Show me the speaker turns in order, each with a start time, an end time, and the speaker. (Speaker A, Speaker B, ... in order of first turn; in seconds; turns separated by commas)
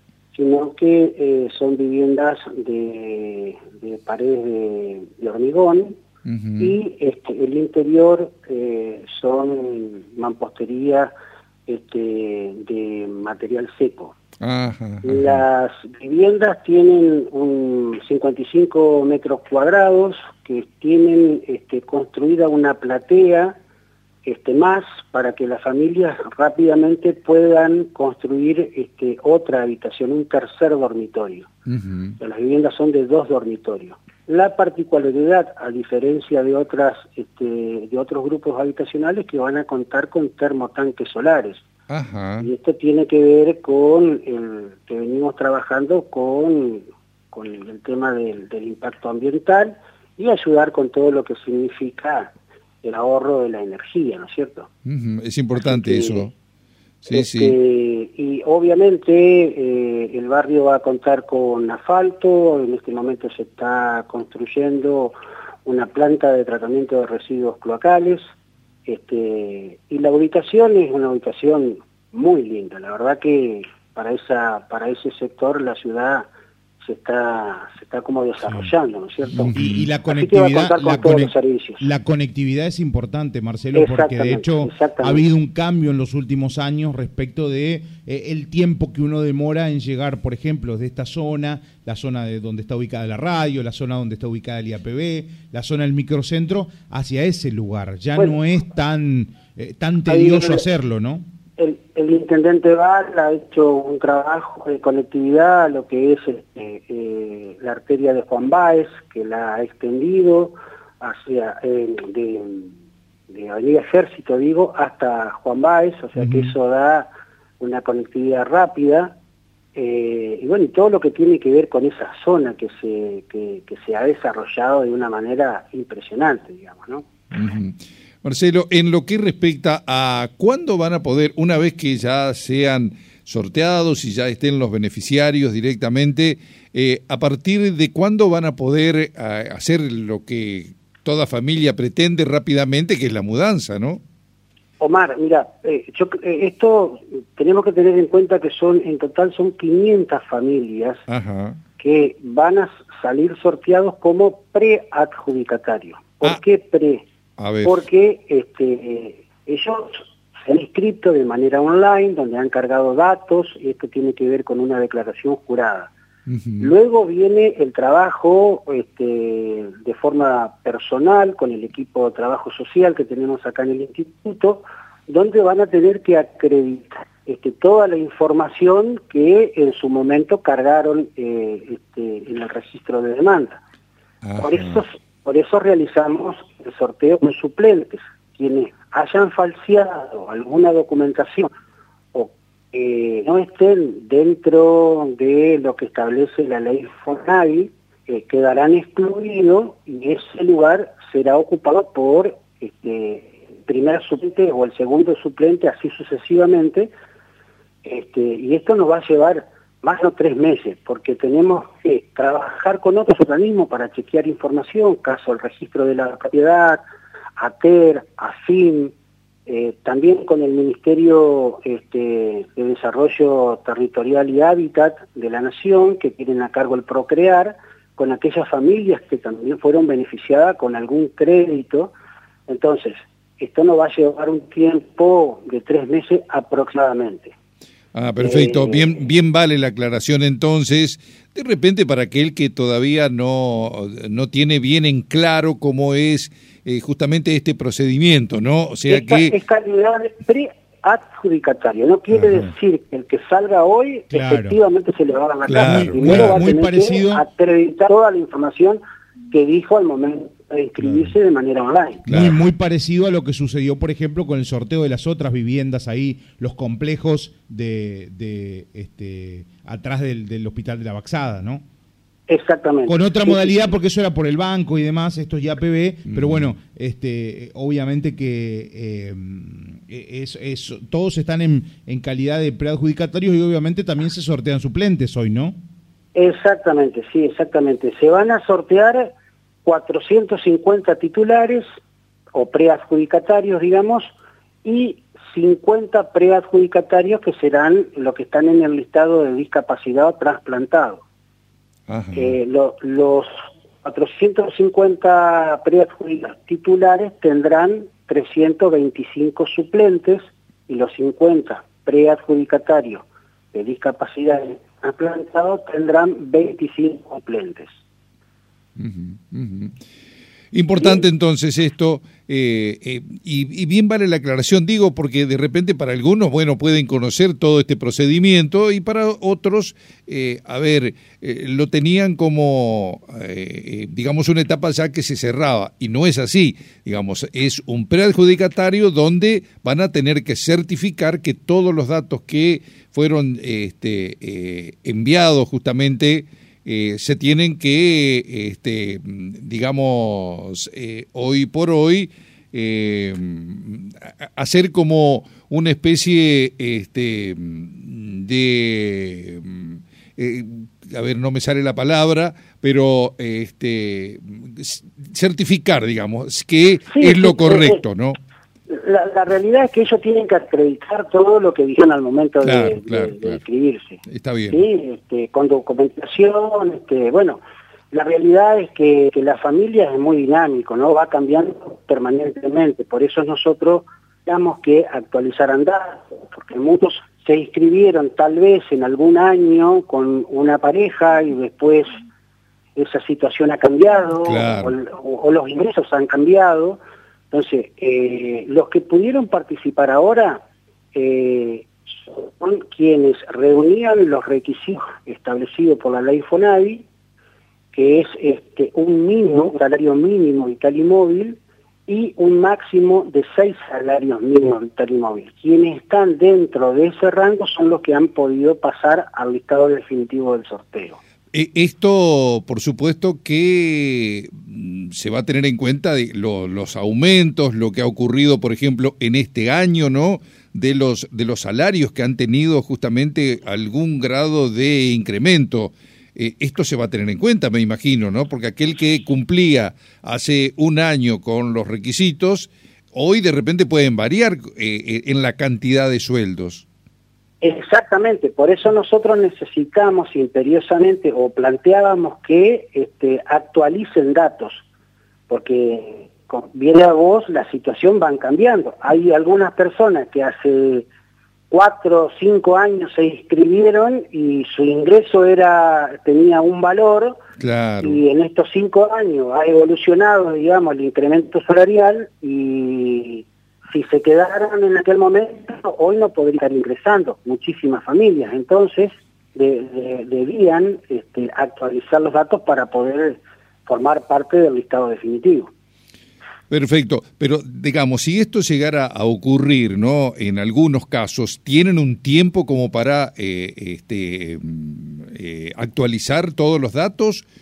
Speaker A: 0.3-6.0, Speaker B: 6.2-6.8, Speaker A: 6.6-11.1, Speaker A: 11.7-14.2, Speaker B: 14.4-15.4, Speaker A: 15.0-23.6, Speaker A: 24.2-31.5, Speaker B: 31.7-32.2, Speaker A: 32.2-41.6, Speaker B: 41.9-42.5, Speaker A: 42.4-52.3, Speaker A: 52.8-54.7, Speaker B: 54.9-56.3, Speaker A: 55.6-56.3, Speaker B: 57.0-57.6, Speaker A: 57.1-68.2, Speaker A: 68.9-76.3, Speaker A: 76.8-81.9, Speaker B: 79.3-79.9, Speaker C: 79.5-101.2, Speaker A: 83.8-85.2, Speaker A: 100.1-100.7, Speaker A: 101.6-112.7, Speaker A: 113.3-117.1, Speaker C: 116.2-116.5, Speaker A: 117.6-119.2, Speaker A: 119.8-127.0, Speaker B: 127.3-144.0, Speaker A: 144.8-151.0, Speaker B: 151.1-151.6, Speaker A: 151.8-157.1, Speaker B: 157.4-157.8, Speaker A: 157.6-165.9, Speaker B: 166.3-166.7, Speaker A: 166.6-183.6, Speaker B: 184.2-184.8, Speaker A: 184.4-191.5, Speaker A: 192.1-206.9, Speaker A: 207.8-216.8, Speaker A: 217.4-218.9, Speaker A: 219.5-231.9, Speaker A: 232.5-237.3, Speaker B: 237.9-249.4, Speaker A: 238.2-239.0, Speaker A: 248.9-258.8, Speaker C: 254.1-254.6, Speaker B: 255.5-256.4, Speaker C: 255.6-257.2, Speaker A: 259.3-262.1, Speaker C: 260.8-261.1, Speaker B: 262.1-262.4, Speaker C: 262.1-271.6, Speaker A: 272.3-273.7, Speaker C: 272.9-285.6, Speaker B: 276.1-276.5, Speaker A: 286.1-289.1, Speaker A: 289.6-291.6, Speaker A: 292.3-294.1, Speaker A: 294.6-301.0, Speaker B: 301.9-302.4, Speaker A: 302.1-317.7, Speaker B: 318.8-319.8, Speaker B: 320.5-368.2, Speaker A: 320.8-321.1, Speaker A: 366.9-367.8, Speaker A: 368.7-377.4, Speaker B: 372.4-373.4, Speaker B: 374.1-374.6, Speaker A: 377.9-392.0, Speaker A: 392.8-396.8, Speaker B: 394.2-394.8, Speaker A: 397.3-400.4, Speaker A: 400.9-406.9, Speaker A: 407.7-421.0, Speaker B: 421.3-446.6, Speaker A: 447.4-454.6, Speaker A: 455.3-460.9, Speaker A: 461.5-467.2, Speaker B: 467.4-468.0, Speaker A: 467.8-485.5, Speaker B: 486.5-497.2